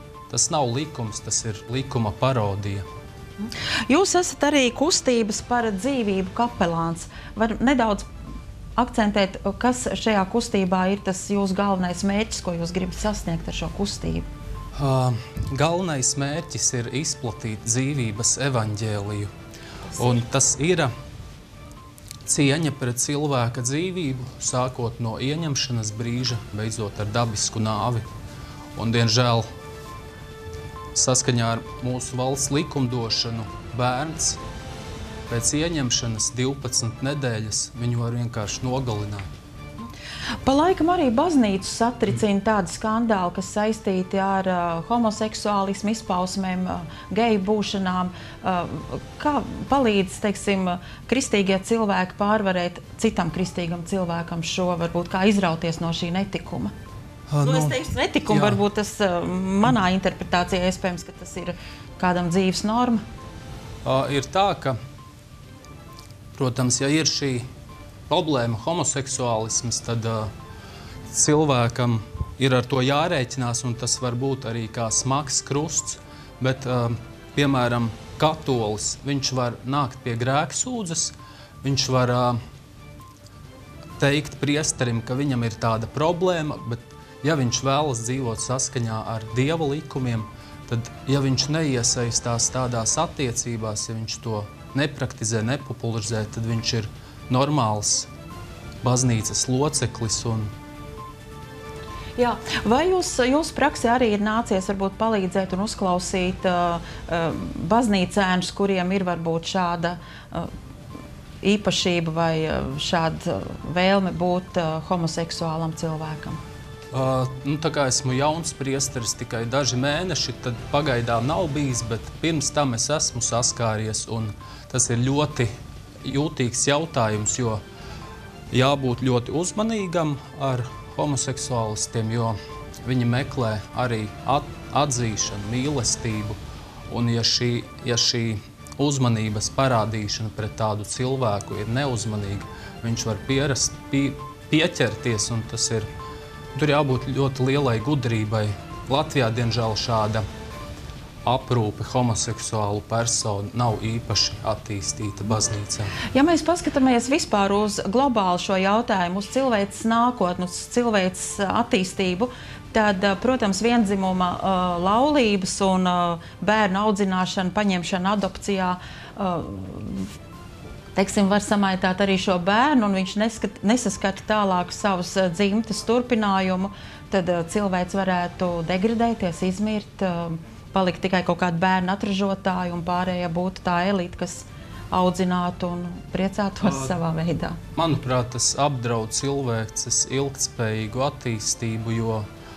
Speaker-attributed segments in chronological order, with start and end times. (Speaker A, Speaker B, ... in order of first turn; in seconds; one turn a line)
Speaker A: 0.3-2.9
Speaker B: 3.4-8.1
Speaker B: 8.8-14.2
Speaker A: 14.7-19.3
Speaker A: 20.0-20.9
Speaker A: 22.2-28.1
Speaker A: 28.7-29.4
Speaker A: 30.9-34.4
Speaker A: 35.3-39.3
Speaker B: 40.4-56.7
Speaker A: 57.3-58.6
Speaker B: 57.4-63.0
Speaker A: 63.8-64.8
Speaker A: 66.3-67.5
Speaker A: 68.1-70.3
Speaker A: 71.1-82.4
Speaker A: 84.0-98.1
Speaker A: 98.8-100.5
Speaker B: 102.2-110.5
Speaker B: 111.4-116.4
Speaker A: 116.9-127.6
Speaker A: 128.5-145.9
Speaker A: 146.5-150.2
Speaker A: 151.2-155.9
Speaker B: 156.1-170.1
Speaker B: 170.9-187.6
Speaker A: 187.7-192.2